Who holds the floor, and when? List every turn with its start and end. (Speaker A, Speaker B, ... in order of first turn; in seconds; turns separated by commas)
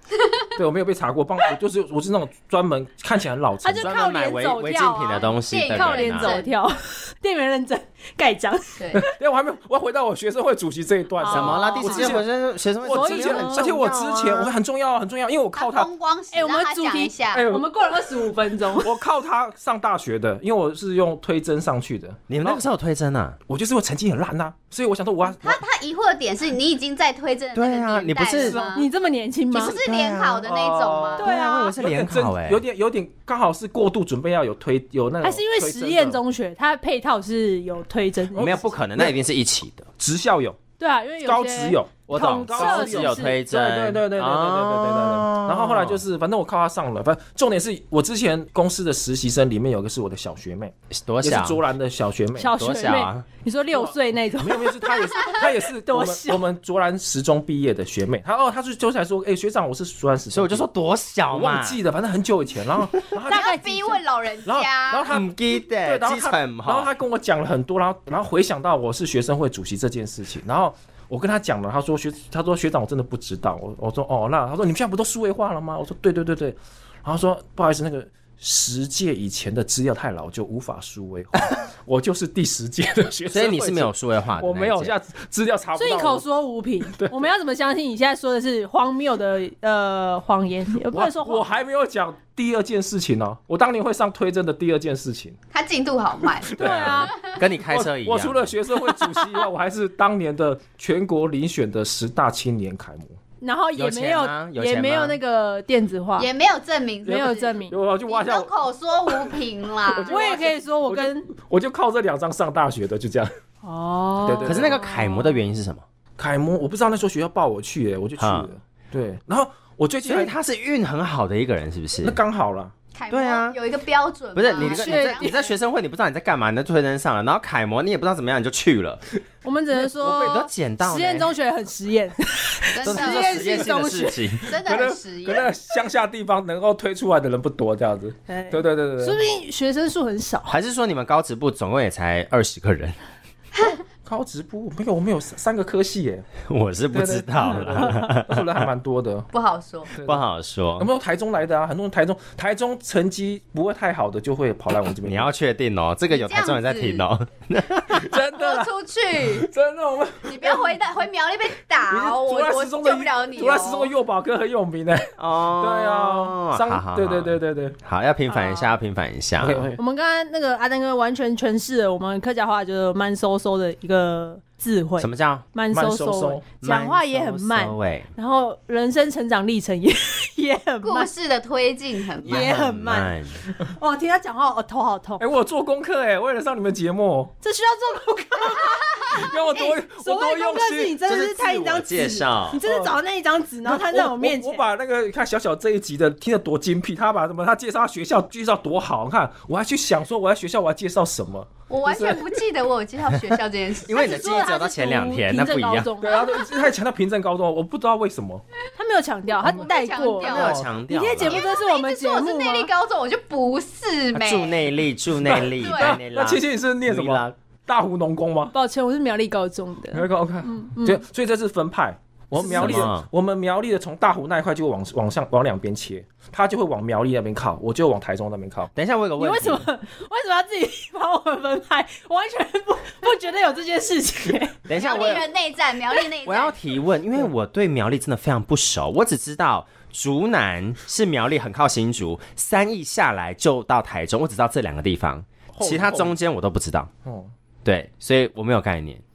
Speaker A: 0.2-0.5, Speaker B: 0.6-3.9, Speaker C: 3.6-9.1, Speaker D: 3.8-6.4, Speaker A: 5.4-6.5, Speaker B: 8.9-12.3, Speaker C: 11.2-12.2, Speaker D: 11.3-14.2, Speaker B: 12.8-15.9, Speaker C: 12.9-14.5, Speaker A: 15.6-17.4, Speaker C: 16.3-18.9, Speaker B: 17.3-17.7, Speaker B: 18.8-22.6, Speaker D: 22.3-23.4, Speaker B: 23.5-25.6, Speaker A: 25.4-28.9, Speaker D: 27.5-28.6, Speaker B: 28.4-28.7, Speaker C: 28.7-29.8, Speaker A: 29.5-31.2, Speaker D: 29.6-32.6, Speaker C: 31.2-31.8, Speaker B: 31.8-36.2, Speaker C: 35.2-38.5, Speaker B: 38.3-39.1, Speaker D: 38.4-39.9, Speaker B: 40.0-40.6, Speaker C: 40.8-43.4, Speaker B: 41.2-52.5, Speaker D: 42.1-46.0, Speaker D: 50.9-51.6, Speaker C: 52.4-56.4, Speaker D: 52.6-53.3, Speaker B: 53.7-60.7, Speaker D: 60.3-61.8, Speaker B: 61.3-63.6, Speaker C: 63.3-64.0, Speaker A: 63.3-65.1, Speaker B: 64.5-86.2, Speaker D: 65.1-66.9, Speaker D: 83.3-84.9, Speaker C: 85.8-91.5, Speaker B: 90.9-95.4, Speaker A: 95.5-96.5, Speaker B: 96.4-97.1, Speaker C: 96.6-97.1, Speaker D: 96.6-98.5, Speaker A: 97.1-97.3, Speaker B: 97.7-103.2, Speaker C: 98.9-99.4, Speaker C: 103.4-106.3, Speaker D: 103.8-105.2, Speaker A: 106.2-107.6, Speaker C: 107.1-107.7, Speaker B: 107.1-108.5, Speaker A: 108.1-110.4, Speaker B: 109.9-113.3, Speaker C: 110.1-111.3, Speaker C: 113.6-115.4, Speaker B: 114.2-114.8, Speaker D: 114.4-115.8, Speaker B: 116.2-120.3, Speaker D: 118.2-118.5, Speaker D: 120.0-122.2, Speaker B: 122.0-122.7, Speaker A: 122.9-125.5, Speaker D: 123.1-123.6, Speaker D: 124.3-129.0, Speaker C: 124.5-125.5, Speaker C: 129.4-134.3, Speaker B: 129.7-130.4, Speaker D: 130.1-131.3, Speaker A: 132.7-133.7, Speaker D: 132.8-134.5, Speaker A: 134.4-135.5, Speaker B: 134.6-139.2, Speaker C: 138.3-140.6, Speaker D: 140.5-143.0, Speaker B: 144.1-146.3, Speaker D: 146.5-148.7, Speaker B: 146.9-149.3, Speaker A: 149.3-149.9, Speaker B: 149.9-150.2, Speaker D: 150.1-150.9, Speaker B: 150.8-155.3, Speaker D: 155.0-158.1, Speaker A: 156.1-157.1, Speaker B: 157.9-160.8, Speaker A: 158.3-159.5, Speaker A: 160.3-163.9, Speaker B: 161.9-167.8, Speaker D: 165.2-169.7, Speaker C: 168.3-168.7, Speaker B: 169.4-169.8, Speaker C: 169.8-181.1, Speaker D: 175.0-175.4, Speaker B: 175.7-176.5, Speaker D: 176.6-178.1, Speaker A: 180.8-182.6, Speaker C: 182.2-185.2, Speaker D: 182.2-183.4, Speaker B: 185.2-187.3, Speaker C: 187.4-194.6, Speaker A: 188.4-189.2, Speaker B: 189.0-191.0, Speaker D: 191.1-192.6, Speaker B: 192.6-192.9, Speaker B: 193.6-202.4, Speaker A: 201.7-204.6, Speaker D: 203.8-205.9, Speaker C: 203.9-206.4, Speaker B: 206.0-208.4, Speaker C: 208.8-212.7, Speaker A: 209.4-210.7, Speaker D: 210.2-211.4, Speaker A: 211.2-214.7, Speaker D: 214.1-217.3, Speaker B: 215.2-218.5, Speaker A: 215.6-216.0, Speaker C: 218.5-221.0, Speaker B: 219.9-228.7, Speaker C: 222.4-222.9, Speaker D: 222.5-223.1, Speaker D: 228.8-229.7, Speaker C: 229.2-235.2, Speaker D: 234.7-235.3, Speaker A: 234.7-236.6, Speaker D: 236.2-246.9, Speaker B: 245.5-246.2, Speaker B: 247.1-247.3, Speaker D: 247.7-249.0